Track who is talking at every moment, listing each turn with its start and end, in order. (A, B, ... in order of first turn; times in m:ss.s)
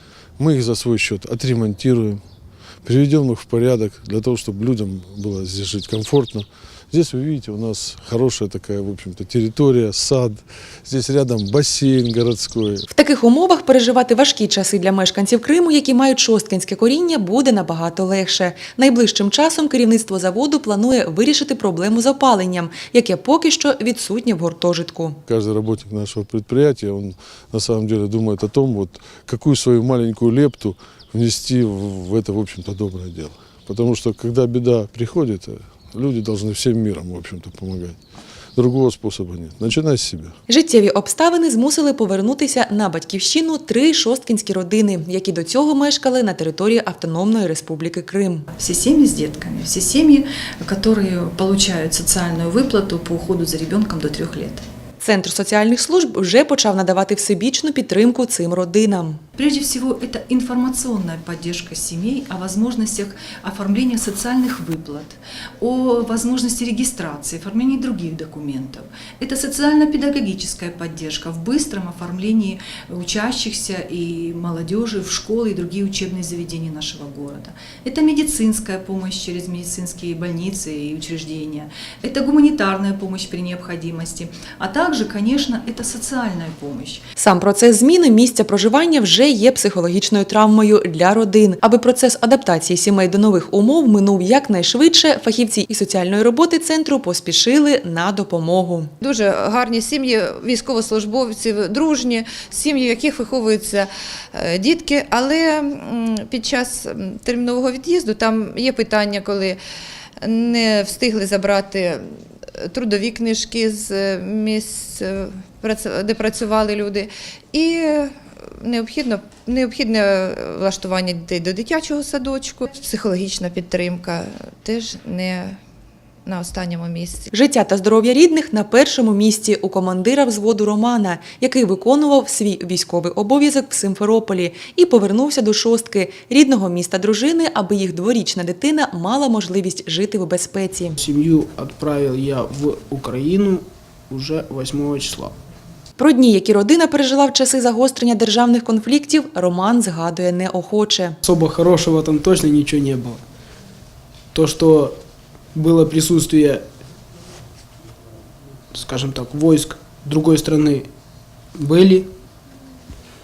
0:00.4-0:02.2 A
0:02.8-0:12.8 A
0:12.9-0:25.2 B
0:25.3-0:38.0 A
0:38.6-0:40.3 A
0:40.5-0:48.4 B
0:48.6-0:54.6 C
0:55.0-0:59.2 B
0:59.4-1:27.0 C
1:27.2-1:38.9 B
1:39.0-1:49.6 D
1:50.2-2:05.6 D
2:06.2-2:07.3 D
2:07.3-2:21.0 B
2:21.0-2:25.3 E
2:26.0-2:31.2 B
2:31.2-2:33.2 E
2:34.3-2:35.0 E
2:35.5-2:36.6 E
2:38.7-2:40.9 E
2:41.6-2:42.1 E